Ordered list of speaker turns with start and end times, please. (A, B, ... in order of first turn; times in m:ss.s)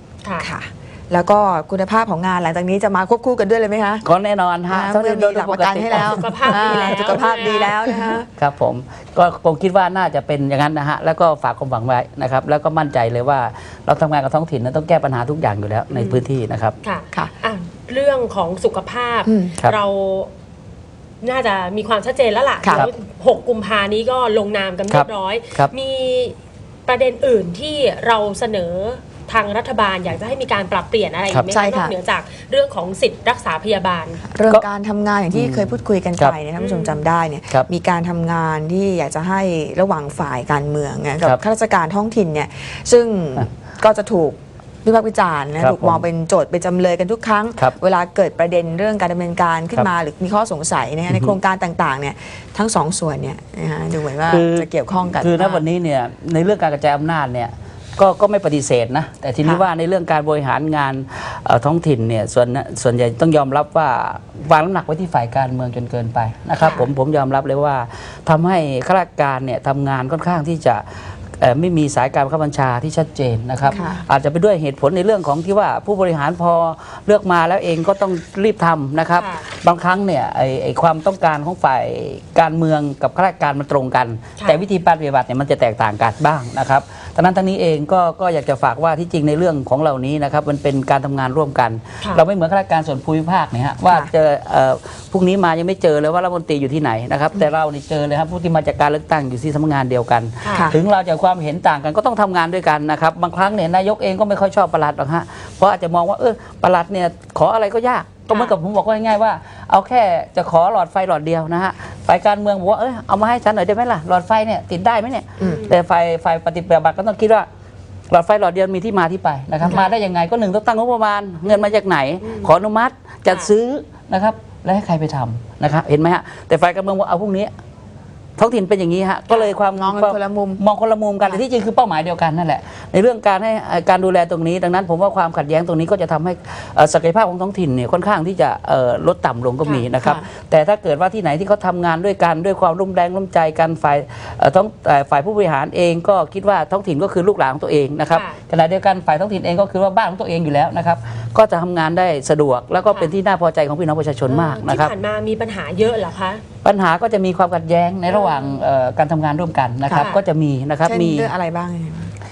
0:00.2-0:00.5 A
0:00.4-0:04.0 B
0:04.0-0:16.8 C
0:04.7-0:08.3 B
0:05.9-0:07.8 A
0:15.9-0:16.2 A
0:16.8-0:20.3 A
0:19.2-0:19.6 B
0:21.2-0:26.4 A
0:22.6-0:22.9 B
0:24.9-0:25.7 C
0:26.9-0:34.2 A
0:31.5-0:32.0 B
0:34.3-0:55.6 B
0:35.3-0:36.3 C
0:36.6-0:37.0 A
0:45.6-0:46.0 C
0:54.3-1:10.8 C
1:06.6-1:06.9 A
1:11.4-1:57.5 C
1:13.7-1:14.0 A
1:13.7-1:14.0 B
1:19.2-1:19.5 A
1:40.4-1:40.7 A
1:40.5-1:40.8 B
1:48.3-1:48.6 A
1:55.4-1:55.8 A
1:58.1-2:07.5 C
1:59.6-1:59.9 A
2:01.5-2:02.5 A
2:08.4-2:34.9 C
2:09.7-2:10.6 B
2:20.0-2:20.2 B
2:28.1-2:28.4 A
2:32.9-2:33.1 A
2:34.3-2:36.4 A
2:36.6-2:41.3 C
2:38.1-2:38.6 A
2:40.0-2:40.2 A
2:40.8-2:42.1 B